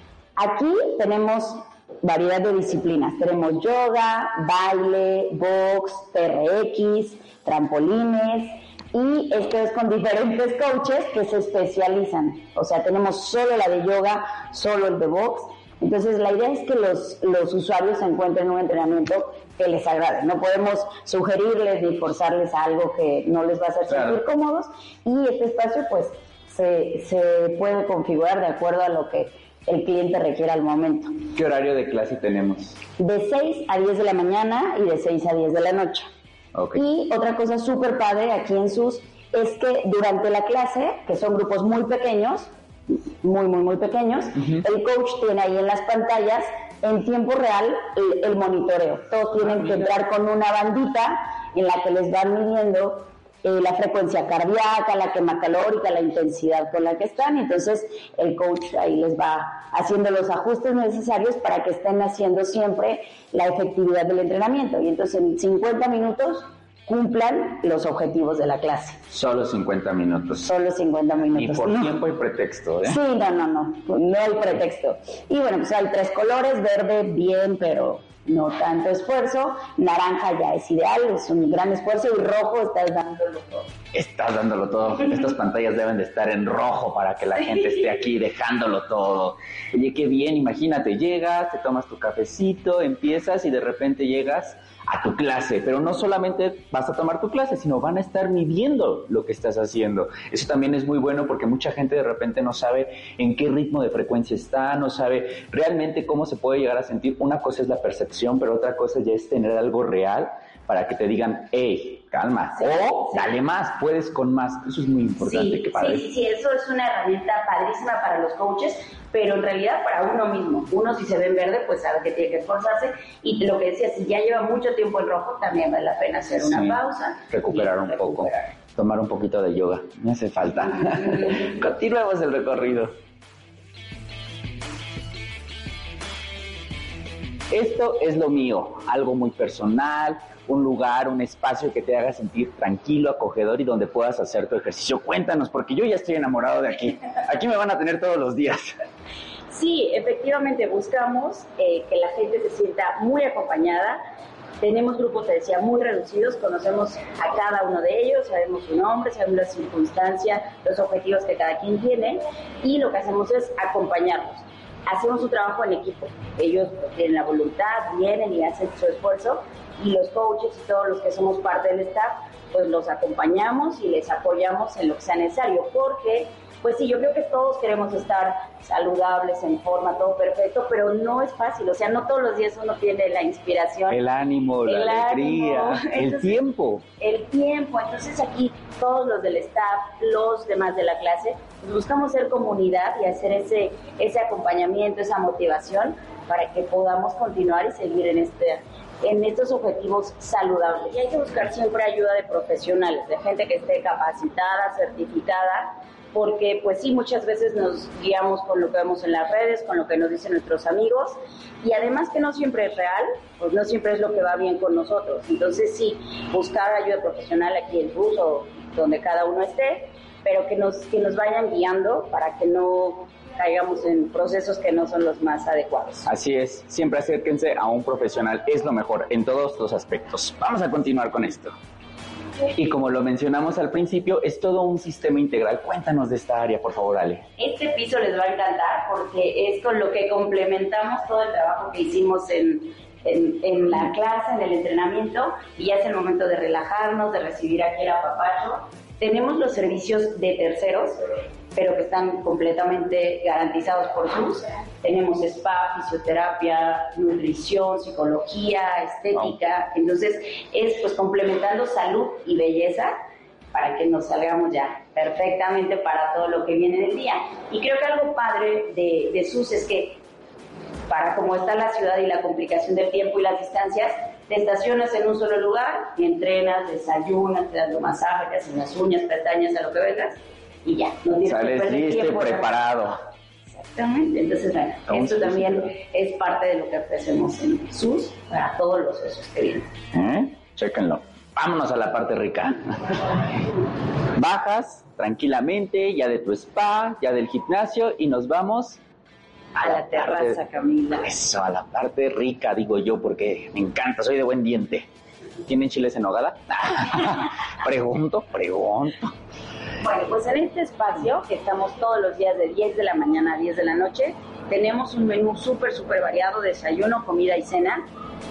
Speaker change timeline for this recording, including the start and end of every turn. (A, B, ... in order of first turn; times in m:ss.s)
0:00.4-0:31.2 A
0:23.9-0:24.2 B
0:31.3-0:32.8 B
0:33.0-0:36.1 A
0:36.5-0:36.8 B
0:36.7-1:09.0 A
0:44.4-0:44.6 B
1:09.1-1:10.5 B
1:10.4-1:11.9 A
1:11.3-1:13.0 B
1:12.8-1:23.6 A
1:23.9-1:56.0 B
1:52.6-1:53.3 C
1:55.2-2:08.5 C
2:06.4-2:13.0 B
2:17.5-2:28.7 B
2:29.5-2:34.0 C
2:34.6-3:04.0 C
3:03.9-3:06.8 B
3:04.6-3:06.3 C
3:07.0-3:46.1 C
3:46.0-3:51.5 B
3:52.5-3:57.2 B
3:57.4-4:11.0 C
4:11.5-4:23.0 C
4:23.5-4:30.0 C
4:30.9-4:42.5 C
4:41.2-4:43.0 B
4:43.5-4:49.7 C
4:44.9-4:45.7 B
4:49.9-4:53.0 B
4:54.2-4:58.8 B
4:59.5-5:00.4 B
4:59.6-5:01.1 C
5:01.0-5:04.9 B
5:05.4-5:09.1 B
5:09.8-5:17.8 C